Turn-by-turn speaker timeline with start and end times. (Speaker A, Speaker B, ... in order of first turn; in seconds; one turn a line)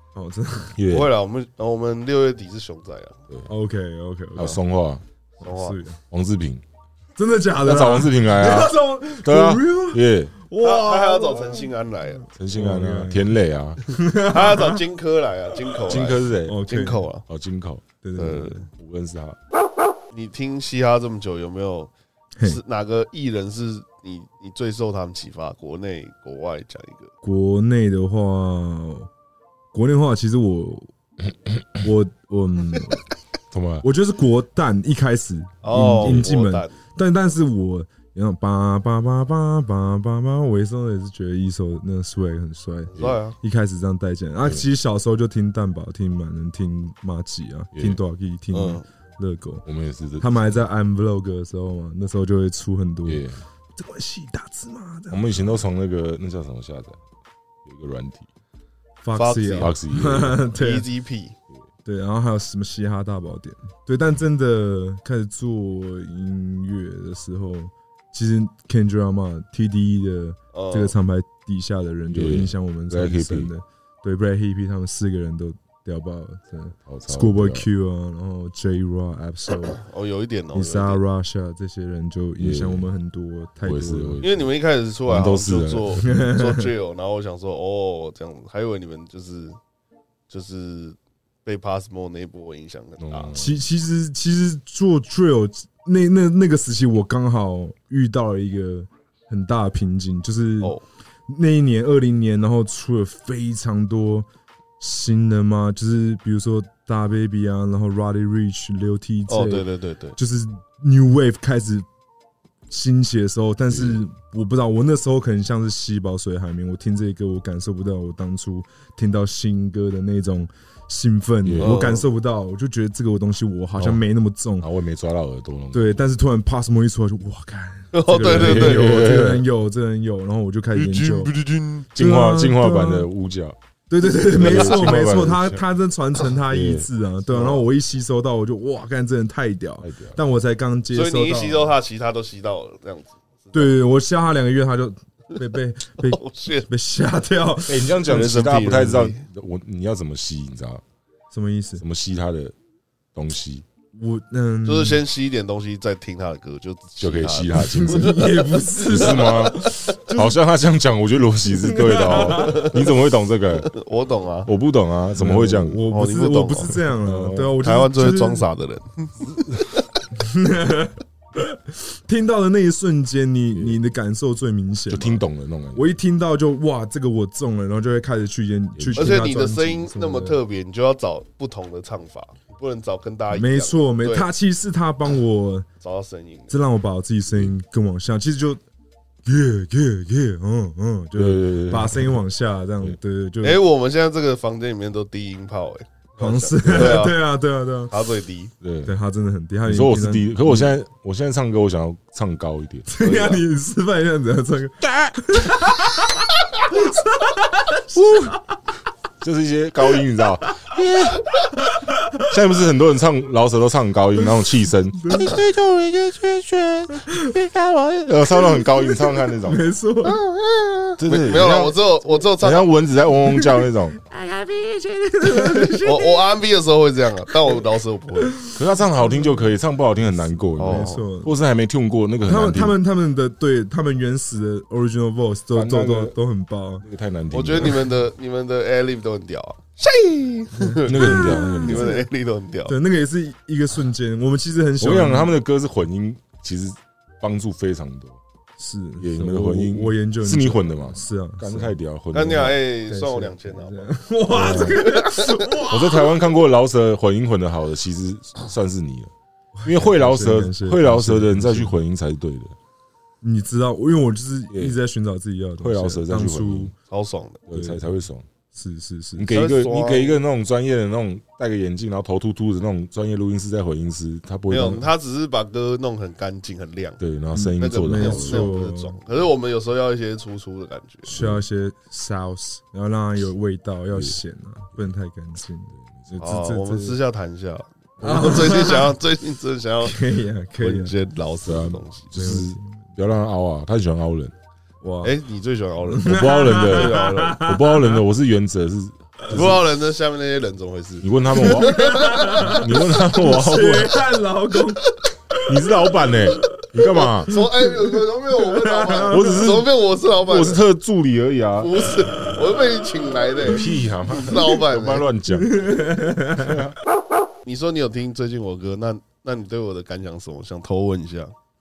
Speaker A: 0.1-0.8
Speaker B: 0.8-1.1
Speaker C: 0.9-3.2
Speaker A: 3.5-4.6
Speaker B: 4.4-5.0
Speaker C: 5.4-5.8
Speaker A: 5.4-6.0
Speaker B: 6.1-6.6
Speaker A: 7.2-11.7
Speaker B: 7.6-10.3
Speaker C: 10.6-12.2
Speaker B: 12.4-13.8
Speaker A: 12.5-13.3
Speaker A: 13.9-14.8
Speaker C: 14.2-17.2
Speaker B: 15.9-16.6
Speaker A: 16.4-17.0
Speaker B: 17.3-17.9
Speaker A: 18.0-18.6
Speaker C: 18.2-18.6
Speaker B: 18.7-19.4
Speaker C: 20.1-27.1
Speaker A: 27.2-29.1
Speaker A: 29.7-30.9
Speaker A: 31.8-33.0
Speaker B: 33.5-33.8
Speaker A: 33.8-49.6
Speaker C: 35.6-36.8
Speaker C: 42.9-43.4
Speaker C: 48.5-48.9
Speaker B: 49.6-50.6
Speaker A: 50.2-55.6
Speaker B: 53.1-53.4
Speaker B: 55.1-57.0
Speaker B: 57.6-58.3
Speaker A: 59.0-60.9
Speaker C: 59.1-59.7
Speaker B: 59.6-60.4
Speaker C: 60.5-61.4
Speaker A: 61.9-79.8
Speaker C: 70.5-70.9
Speaker B: 72.1-73.5
Speaker B: 76.9-77.7
Speaker C: 79.7-81.0
Speaker A: 80.5-84.2
Speaker B: 82.4-82.8
Speaker B: 83.6-84.5
Speaker C: 84.2-89.6
Speaker B: 85.1-86.0
Speaker A: 86.0-86.7
Speaker C: 90.3-93.3
Speaker B: 93.0-93.6
Speaker A: 93.3-100.8
Speaker A: 101.3-104.3
Speaker A: 104.8-111.9
Speaker C: 109.3-110.2
Speaker A: 112.7-124.7
Speaker B: 113.7-114.0
Speaker B: 121.4-121.7
Speaker C: 121.6-122.0
Speaker B: 124.6-125.9
Speaker A: 125.7-131.3
Speaker C: 127.9-128.9
Speaker B: 128.2-129.4
Speaker C: 130.8-131.9
Speaker B: 131.9-133.6
Speaker A: 131.9-133.1
Speaker A: 133.9-141.8
Speaker B: 134.3-135.6
Speaker C: 134.4-134.7
Speaker B: 136.5-136.9
Speaker C: 137.3-137.6
Speaker B: 139.8-140.2
Speaker C: 140.9-143.7
Speaker A: 143.5-147.9
Speaker C: 146.0-146.7
Speaker B: 147.7-150.8
Speaker C: 148.0-149.2
Speaker A: 151.3-151.8
Speaker B: 151.8-152.5
Speaker B: 153.1-153.6
Speaker A: 153.9-155.0
Speaker C: 154.6-158.5
Speaker B: 157.0-158.3
Speaker A: 157.7-160.3
Speaker B: 158.9-163.7
Speaker C: 159.0-159.6
Speaker A: 161.5-162.8
Speaker C: 162.3-162.7
Speaker C: 163.7-164.5
Speaker B: 164.4-165.8
Speaker A: 165.2-168.4
Speaker C: 165.9-166.8
Speaker B: 167.0-167.6
Speaker C: 167.6-169.8
Speaker A: 170.1-175.2
Speaker B: 174.9-175.9
Speaker A: 175.8-180.4
Speaker B: 178.8-179.1
Speaker C: 178.9-184.3
Speaker A: 183.3-185.7
Speaker C: 185.8-186.6
Speaker A: 186.5-188.6
Speaker A: 189.2-193.6
Speaker B: 191.2-192.2
Speaker C: 193.4-197.2
Speaker A: 196.2-197.9
Speaker C: 197.9-198.5
Speaker B: 198.6-198.9
Speaker A: 198.8-200.8
Speaker B: 199.6-203.4
Speaker A: 202.9-208.4
Speaker B: 204.8-205.5
Speaker B: 207.9-208.3
Speaker B: 209.2-211.4
Speaker A: 211.6-212.2
Speaker B: 212.2-219.6
Speaker A: 215.0-215.4
Speaker A: 217.1-217.3
Speaker A: 218.3-220.2
Speaker C: 220.0-222.7
Speaker B: 221.0-221.8
Speaker B: 222.4-224.0
Speaker A: 223.3-226.2
Speaker C: 225.6-228.4
Speaker A: 228.2-228.6
Speaker B: 228.5-232.8
Speaker C: 230.6-231.1
Speaker A: 230.7-231.3
Speaker A: 232.2-236.8
Speaker B: 235.5-236.1
Speaker B: 236.8-237.9
Speaker C: 237.3-242.8
Speaker A: 240.6-242.1
Speaker B: 240.8-242.0
Speaker A: 242.7-245.3
Speaker B: 244.8-248.2
Speaker A: 248.6-251.8
Speaker B: 249.0-252.6
Speaker C: 252.1-255.6
Speaker A: 252.9-256.1
Speaker B: 254.3-254.8
Speaker B: 255.7-259.1
Speaker A: 259.6-261.8
Speaker B: 259.6-262.6
Speaker A: 263.2-266.7
Speaker B: 265.6-266.7
Speaker C: 266.9-267.4
Speaker B: 267.5-268.2
Speaker A: 267.5-267.9
Speaker A: 268.6-269.3
Speaker B: 269.2-274.9
Speaker C: 269.3-270.2
Speaker C: 274.5-277.0
Speaker B: 277.0-278.5
Speaker A: 277.4-279.0
Speaker C: 277.5-281.1
Speaker A: 281.1-287.0
Speaker B: 281.1-281.4
Speaker C: 286.2-290.0
Speaker A: 288.0-288.9
Speaker A: 289.9-290.9
Speaker C: 290.6-292.1
Speaker B: 291.4-294.3
Speaker A: 292.1-292.8
Speaker A: 294.8-295.1
Speaker C: 295.0-297.4
Speaker A: 295.9-298.0
Speaker B: 296.1-299.6
Speaker C: 299.3-302.6
Speaker B: 301.0-304.0
Speaker A: 301.4-305.6
Speaker B: 305.4-307.4
Speaker C: 306.8-310.6
Speaker A: 307.3-309.6
Speaker B: 309.1-312.1
Speaker C: 311.6-315.1
Speaker B: 313.4-315.7
Speaker A: 315.3-316.6
Speaker B: 316.3-316.8
Speaker C: 317.4-321.3